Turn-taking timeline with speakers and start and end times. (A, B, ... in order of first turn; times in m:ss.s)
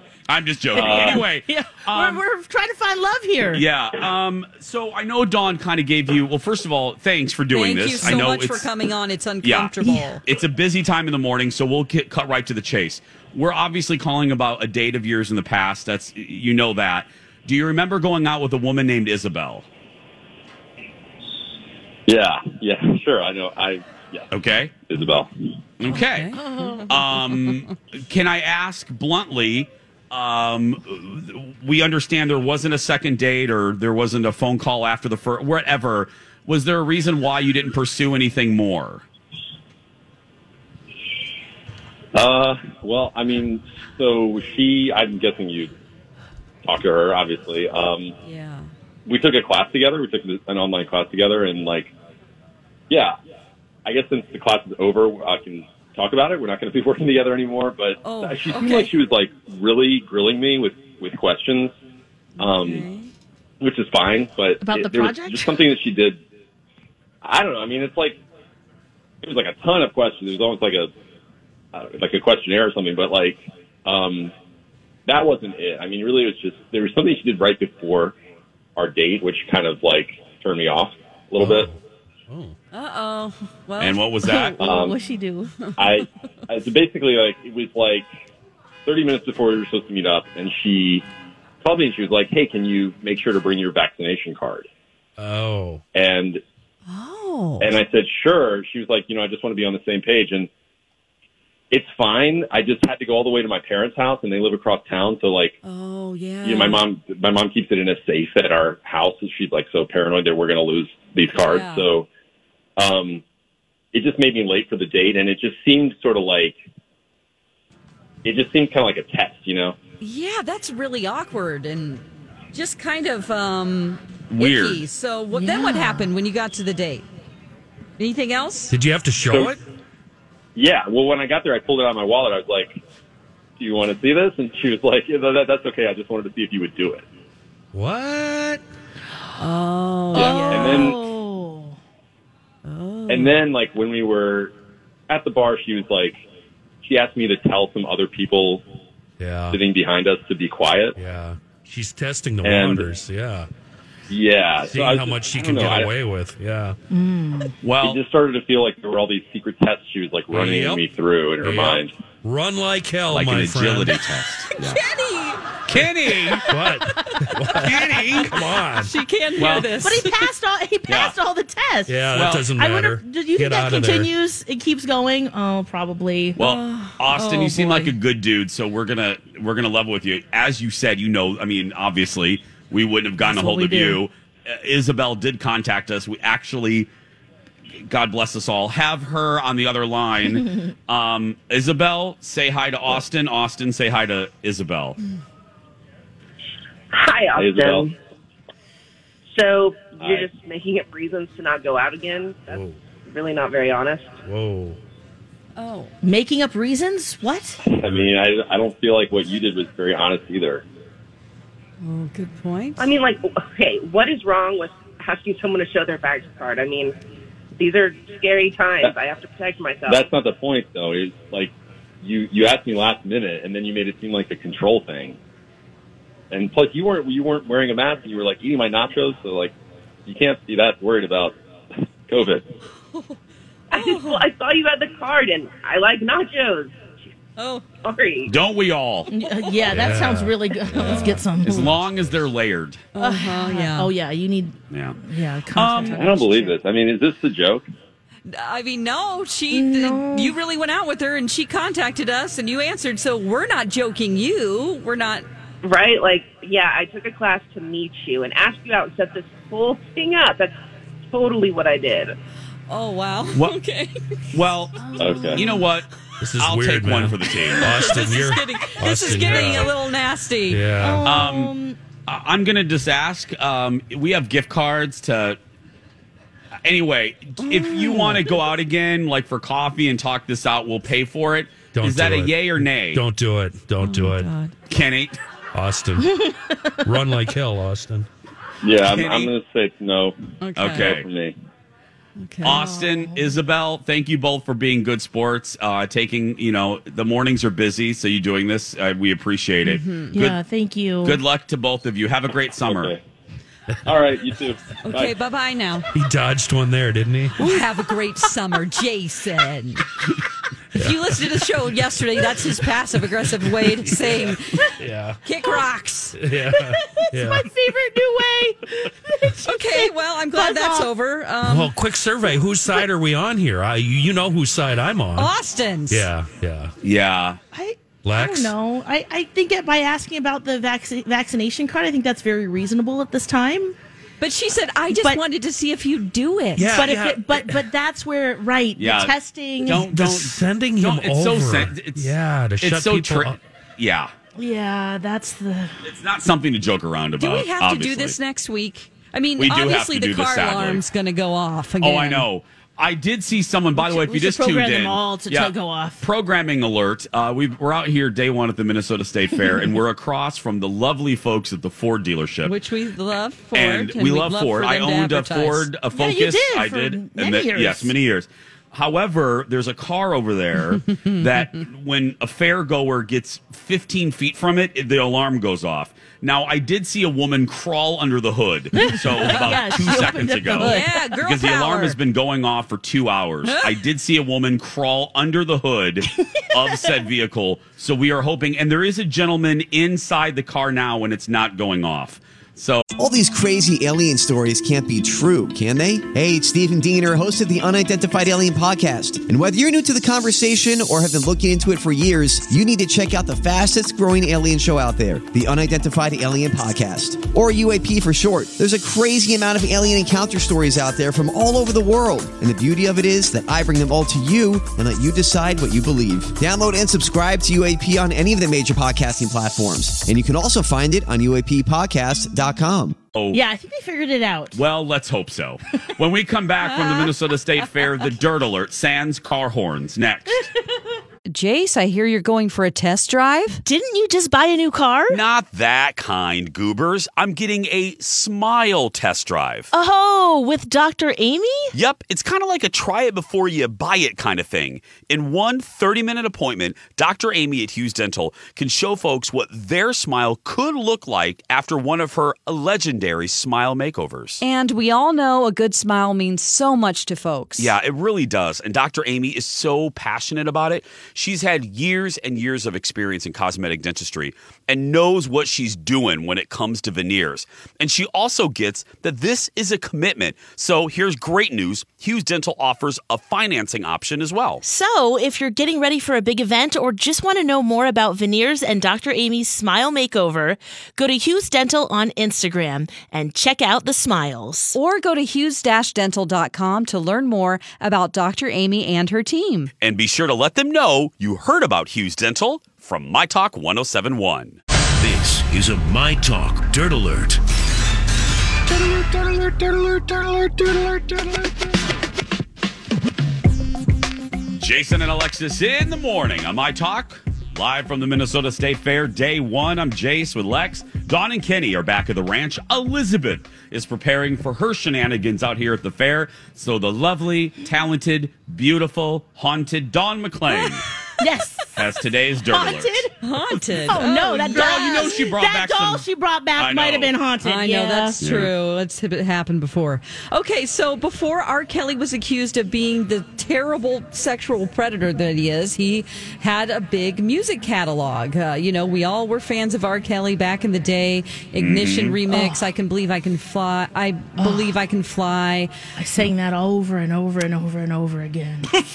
0:00.3-0:02.2 A
0:00.7-0:03.6 B
0:00.8-0:01.2 C
0:03.5-0:08.7 A
0:07.5-0:10.2 D
0:09.4-0:19.6 A
0:22.1-0:24.3 C
0:24.3-0:24.8 A
0:24.8-0:25.3 C
0:25.8-0:39.0 A
0:25.9-0:26.9 D
0:26.3-0:26.9 B
0:42.1-0:45.7 C
0:46.6-0:48.1 C
0:48.2-0:48.7 D
0:49.0-0:51.9 C
0:52.9-0:53.2 C
0:53.8-1:01.7 C
0:58.0-0:58.9 D
1:02.4-1:02.8 C
1:02.4-1:03.1 D
1:03.6-1:06.2 C
1:04.6-1:05.6 B
1:07.2-1:08.2 C
1:09.2-1:10.9 C
1:11.7-1:14.3 C
1:15.0-1:18.2 C
1:18.8-1:21.7 C
1:21.4-1:21.8 E
1:22.3-1:22.5 E
1:22.7-1:24.6 D
1:23.8-1:24.7 A
1:24.5-1:25.6 B
1:24.6-1:25.0 C
1:25.7-1:28.1 C
1:28.8-1:31.0 C
1:31.6-1:34.7 C
1:35.2-1:35.8 E
1:35.9-1:36.4 C
1:36.9-1:37.7 D
1:37.6-1:40.5 C
1:41.7-1:45.6 C
1:45.6-1:46.8 D
1:46.4-1:52.1 C
1:51.3-1:51.8 D
1:52.8-1:53.2 C
1:53.9-1:56.6 C
1:58.2-1:59.8 C
2:00.0-2:07.0 D
2:04.3-2:04.8 A
2:05.3-2:06.1 B
2:08.0-2:08.7 D
2:08.7-2:09.6 E
2:09.3-2:09.5 C
2:10.5-2:12.8 C
2:13.6-2:17.0 C
2:17.7-2:18.6 E
2:19.4-2:21.0 D
2:20.1-2:21.8 B
2:20.1-2:21.0 C
2:22.6-2:23.3 D
2:23.1-2:24.5 C
2:25.1-2:26.2 C
2:26.8-2:28.6 C
2:29.2-2:29.6 E
2:29.5-2:30.9 C
2:31.0-2:33.5 E
2:32.4-2:32.9 C
2:34.1-2:35.9 C
2:34.6-2:36.8 E
2:36.9-2:37.6 B
2:37.6-2:38.0 A
2:37.8-2:41.9 C
2:40.3-2:40.8 E
2:41.4-2:44.0 E
2:43.1-2:44.8 A
2:44.6-2:45.4 D
2:45.7-2:46.5 A
2:46.5-2:48.9 E
2:47.6-2:48.4 A
2:48.7-2:50.3 D
2:49.4-2:49.8 A
2:49.4-2:56.4 B
2:50.9-2:51.2 A
2:51.9-2:54.1 E
2:52.1-2:52.5 A
2:56.4-2:57.9 D
2:56.4-3:06.9 A
3:03.2-3:04.0 B
3:07.9-3:15.0 A
3:16.9-3:17.9 F
3:17.3-3:17.9 C
3:19.3-3:24.1 F
3:20.0-3:20.3 C
3:22.5-3:22.8 E
3:24.2-3:24.8 E
3:25.6-3:25.9 D
3:26.0-3:27.6 B
3:27.6-3:30.6 C
3:27.8-3:28.1 E
3:31.8-3:32.9 D
3:32.8-3:36.9 F
3:37.6-3:40.1 F
3:39.9-3:45.2 C
3:46.3-3:49.5 C
3:50.0-3:51.4 C
3:52.1-3:52.4 C
3:53.7-3:56.8 F
3:53.7-3:54.2 D
3:57.4-3:57.6 D
3:57.8-3:58.3 F
3:58.2-3:59.1 A
3:59.1-4:01.8 B
3:59.6-4:01.2 E
4:00.8-4:01.2 D
4:01.4-4:02.8 A
4:03.0-4:03.9 D
4:03.0-4:06.5 B
4:04.7-4:05.0 A
4:05.5-4:06.1 A
4:05.9-4:07.7 C
4:08.3-4:15.2 D
4:09.5-4:10.3 B
4:15.6-4:20.5 F
4:21.1-4:22.1 F
4:22.7-4:24.3 D
4:24.3-4:25.8 A
4:24.8-4:25.6 B
4:25.0-4:25.4 D
4:25.0-4:25.4 C
4:26.2-4:29.7 E
4:26.4-4:27.9 A
4:27.6-4:30.8 D
4:30.5-4:31.2 E
4:30.8-4:31.8 B
4:31.0-4:31.5 A
4:32.0-4:35.4 A
4:36.6-4:43.0 A
4:37.4-4:38.3 D
4:41.7-4:44.3 E
4:43.8-4:44.5 D
4:44.7-4:45.2 A
4:45.5-4:46.1 E
4:46.0-4:46.9 B
4:46.8-4:48.1 E
4:48.6-4:50.2 C
4:48.8-4:49.3 A
4:50.4-4:50.9 D
4:50.6-4:51.0 A
4:50.7-4:51.3 C
4:52.2-4:52.7 D
4:52.4-5:00.4 A
4:52.6-4:53.1 B
4:59.6-5:00.2 D
5:00.1-5:01.2 B
5:01.0-5:03.0 A
5:02.7-5:03.0 C
5:03.8-5:05.1 C
5:04.8-5:05.9 D
5:05.9-5:07.4 E
5:07.4-5:09.8 D
5:10.7-5:14.6 D
5:14.8-5:15.2 E
5:15.2-5:16.2 D
5:16.2-5:17.5 E
5:16.5-5:20.9 B
5:19.4-5:21.7 D
5:21.4-5:25.3 E
5:25.2-5:26.1 D
5:25.9-5:26.7 E
5:26.8-5:27.4 A
5:27.5-5:33.8 B
5:28.0-5:28.5 E
5:34.2-5:36.9 D
5:34.9-5:35.2 B
5:36.6-5:37.6 E
5:36.8-5:39.8 B
5:38.8-5:44.1 A
5:39.7-5:43.4 E
5:44.4-5:45.7 B
5:45.8-5:48.2 A
5:47.2-5:52.3 D
5:49.4-5:50.8 A
5:51.8-6:02.5 A
5:53.8-5:56.0 B
6:02.4-6:05.7 D
6:03.5-6:32.8 A
6:05.9-6:07.9 B
6:18.7-6:21.0 B
6:20.6-6:22.0 D
6:26.1-6:26.9 B
6:33.0-7:03.0 G
7:03.1-7:03.4 A
7:03.3-7:04.6 B
7:04.5-7:10.5 A
7:06.7-7:07.1 D
7:11.3-7:13.6 D
7:13.6-7:15.2 B
7:15.1-7:19.7 A
7:19.7-7:21.7 B
7:21.7-7:34.4 A
7:34.4-7:37.7 D
7:37.6-7:54.6 A
7:54.6-8:04.8 B
8:04.7-8:09.7 D
8:09.8-8:14.6 A
8:15.0-8:17.4 H
8:24.6-8:40.8 A
8:41.2-8:41.8 B
8:41.7-8:43.1 A
8:42.5-8:43.1 B
8:43.2-8:45.1 D
8:43.8-8:48.2 B
8:44.4-8:47.1 A
8:47.4-9:05.7 D
8:48.2-8:48.5 A
9:01.6-9:02.2 A
9:02.3-9:02.6 B
9:04.4-9:04.8 B
9:06.0-9:08.7 B